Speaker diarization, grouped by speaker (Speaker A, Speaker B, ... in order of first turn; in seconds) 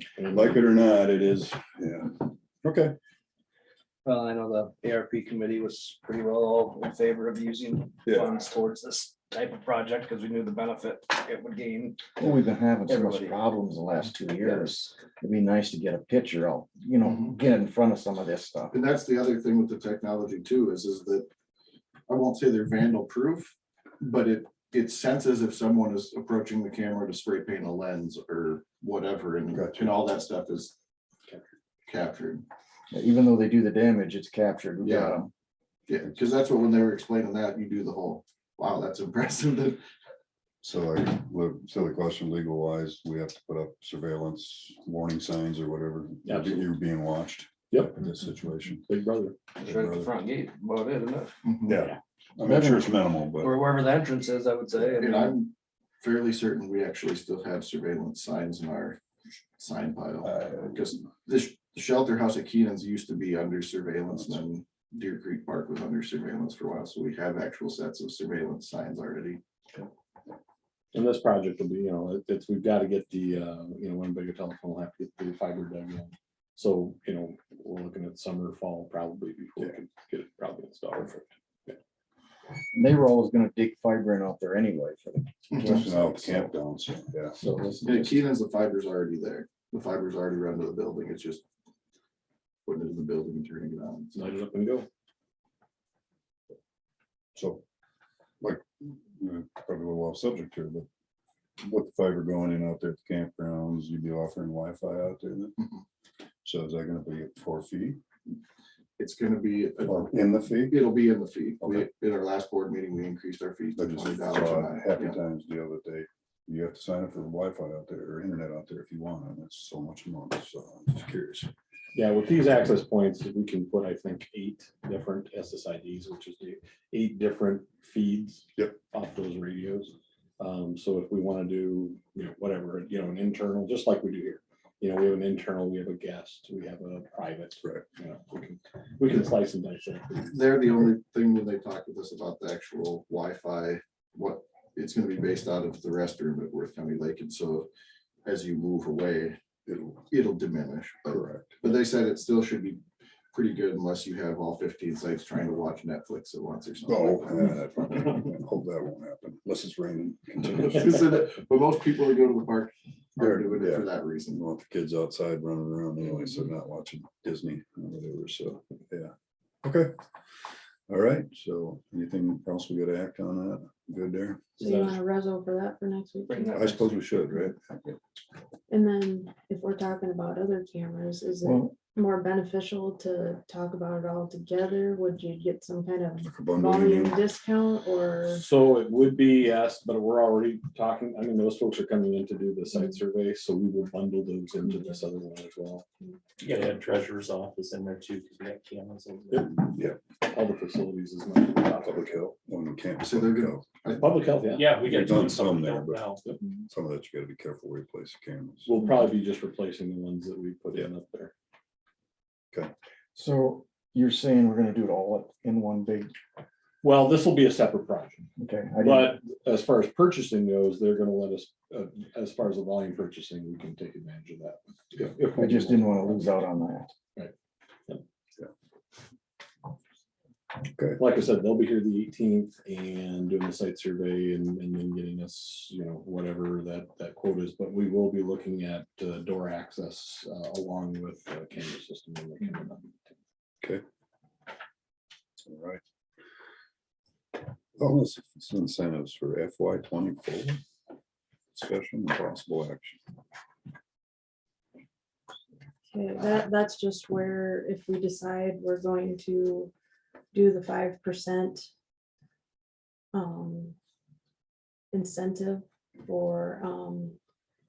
Speaker A: 0.2-0.6, 46.2-46.7, 47.7-48.0, 48.9-49.5, 70.9-81.8, 87.4-88.2, 94.1-94.9, 122.0-140.4, 188.3-195.8, 199.3-202.3, 204.0-205.2, 208.7-211.3, 216.8-218.3, 218.8-226.3, 231.0-243.2
Speaker B: 0.3-3.0, 8.1-8.3, 29.5-30.0, 40.6-48.9, 49.6-50.1, 51.7-53.6, 60.3-60.7, 85.6-87.4, 97.3-97.6, 98.4-100.9, 101.6-105.6, 106.4-108.0, 109.8-111.0, 111.6-111.9, 113.8-121.5, 149.7-150.1, 151.1-151.8, 156.8-160.9, 163.2-169.9, 170.9-174.5, 176.5-178.0, 186.2-187.2, 199.7-200.0, 201.9-203.7, 204.8-206.1, 206.7-208.8, 230.7-231.0, 245.4-245.8, 247.8-250.6, 251.5-253.0
Speaker C: 4.0-13.4, 14.4-14.9, 49.6-51.3, 53.4-55.4, 176.3-176.8
Speaker D: 12.2-18.8, 32.9-35.3, 52.4-53.0, 82.7-86.5, 181.4-181.7, 213.2-216.1, 218.4-219.2, 225.3-226.9
Speaker E: 17.0-17.4, 18.7-21.3, 22.1-30.8, 31.9-32.5, 34.8-35.2, 35.9-39.8, 51.5-51.8, 55.0-59.0, 59.6-69.4, 87.8-91.4, 92.7-94.2, 109.0-115.2, 140.3-147.7, 148.2-149.4, 150.1-152.8, 153.3-158.1, 160.6-164.4, 203.0-204.3
Speaker F: 174.6-177.2, 178.7-188.5, 255.9-259.7, 260.3-261.7, 263.1-263.8, 264.9-267.2
Speaker G: 196.4-199.5, 204.5-206.3